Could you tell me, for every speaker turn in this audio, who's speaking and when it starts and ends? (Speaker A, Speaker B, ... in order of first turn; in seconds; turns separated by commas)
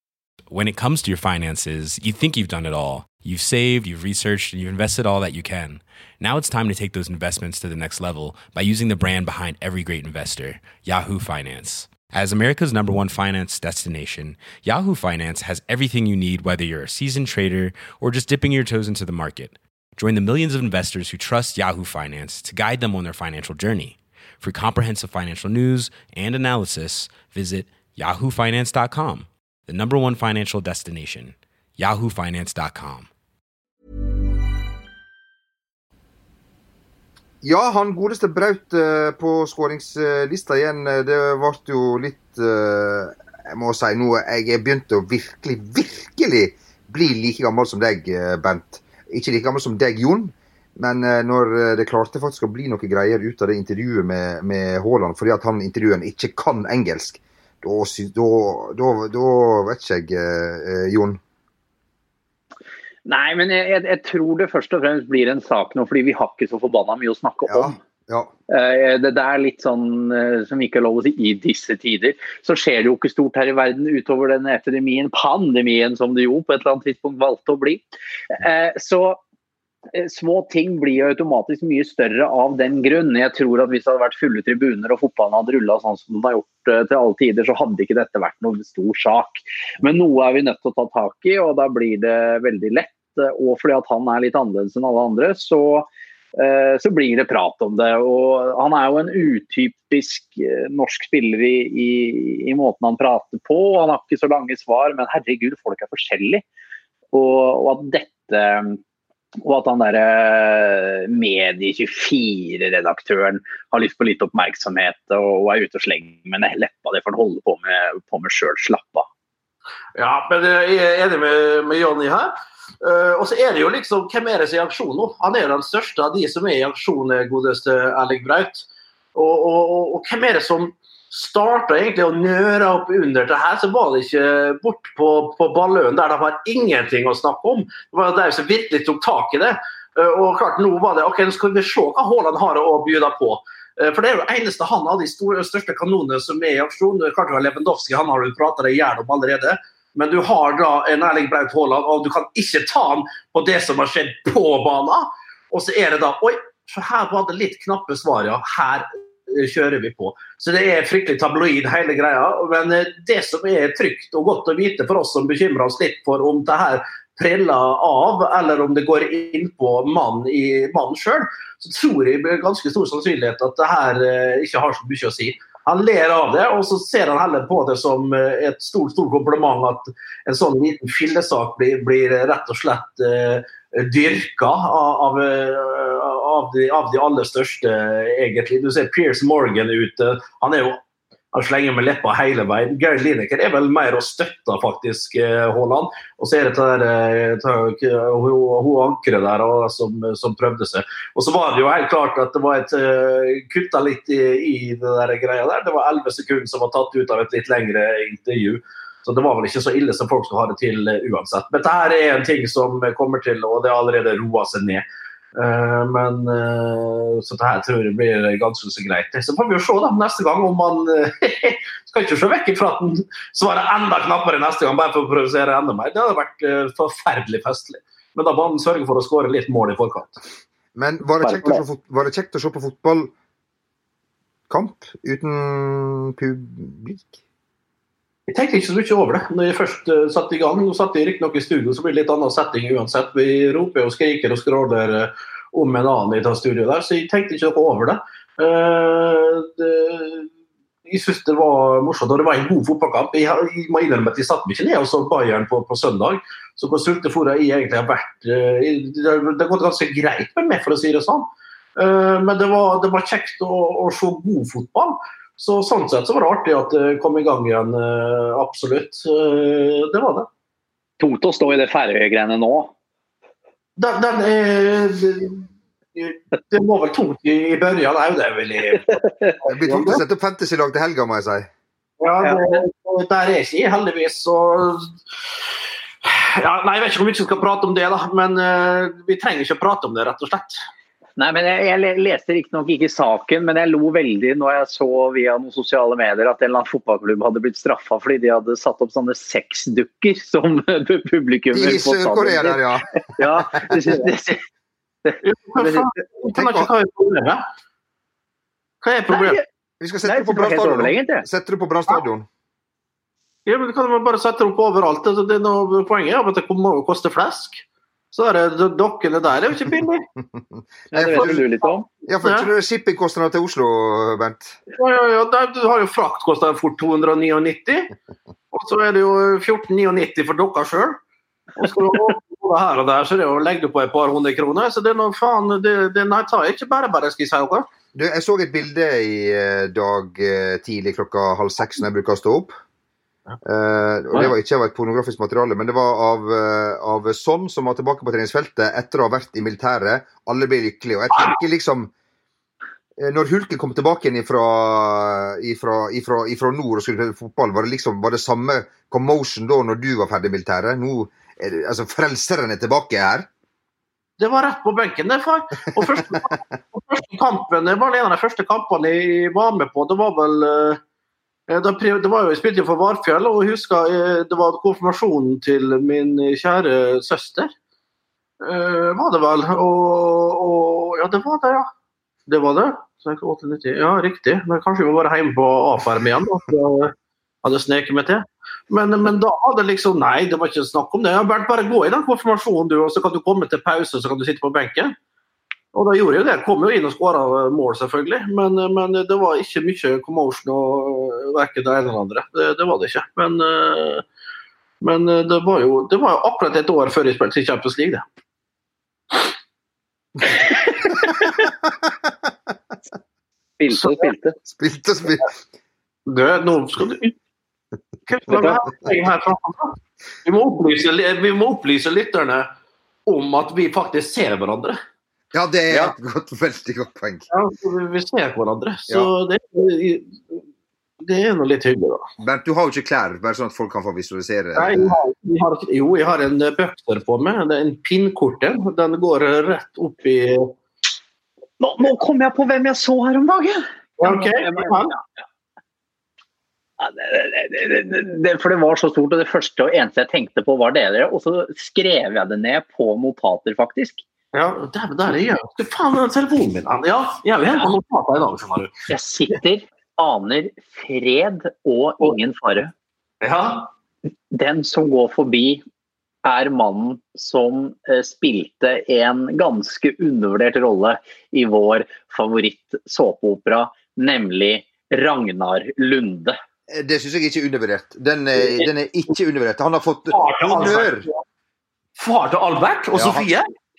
Speaker A: 0.5-33.1, Speaker B: 37.4-61.2, Speaker C: 63.0-67.8, Speaker B: 67.5-68.3, Speaker C: 68.5-79.2, Speaker C: 79.9-106.4, Speaker C: 107.1-108.8, Speaker C: 109.4-119.1, Speaker D: 120.0-190.8, Speaker D: 191.3-214.8, Speaker D: 215.3-230.2, Speaker B: 230.7-233.1, Speaker C: 231.2-231.6, Speaker B: 234.5-237.2, Speaker D: 238.3-250.3, Speaker D: 250.8-270.3, Speaker C: 271.0-272.7, Speaker D: 273.8-275.4, Speaker D: 275.9-279.0, Speaker B: 279.4-281.5, Speaker D: 279.6-280.0, Speaker D: 282.0-284.9, Speaker C: 282.2-282.6, Speaker D: 286.0-290.6, Speaker C: 291.2-302.6, Speaker B: 301.5-303.9, Speaker C: 303.2-304.4, Speaker C: 305.1-305.9, Speaker D: 305.2-307.4, Speaker B: 306.3-306.7, Speaker D: 308.8-309.4, Speaker C: 309.1-309.4, Speaker B: 309.8-312.3, Speaker C: 310.0-311.2, Speaker D: 313.4-320.1, Speaker B: 320.3-321.4, Speaker C: 320.9-321.9, Speaker B: 322.1-324.6, Speaker D: 322.2-322.5, Speaker D: 324.7-327.9, Speaker D: 328.5-331.0, Speaker D: 331.6-337.6, Speaker B: 337.9-342.6, Speaker B: 343.4-351.9, Speaker B: 353.0-363.3, Speaker D: 364.2-370.8, Speaker B: 365.8-366.1, Speaker D: 371.5-377.5, Speaker D: 378.4-381.7, Speaker D: 382.3-386.9, Speaker D: 387.4-394.9, Speaker D: 395.7-404.0, Speaker D: 404.8-408.0, Speaker C: 413.6-414.3, Speaker D: 413.7-414.1, Speaker B: 414.5-415.3, Speaker D: 416.1-417.1, Speaker D: 418.1-422.5, Speaker C: 418.3-418.6, Speaker D: 423.1-424.8, Speaker B: 425.3-427.2, Speaker D: 427.3-430.4, Speaker D: 431.0-432.0, Speaker B: 432.2-435.0, Speaker D: 434.6-440.5, Speaker C: 441.6-444.8, Speaker D: 444.0-445.0, Speaker C: 446.8-454.0, Speaker D: 454.3-458.7, Speaker C: 458.9-462.7, Speaker D: 463.2-463.7, Speaker C: 464.3-465.6, Speaker C: 466.2-476.4, Speaker B: 476.7-481.1, Speaker D: 480.1-481.2, Speaker D: 482.0-483.4, Speaker B: 482.9-483.3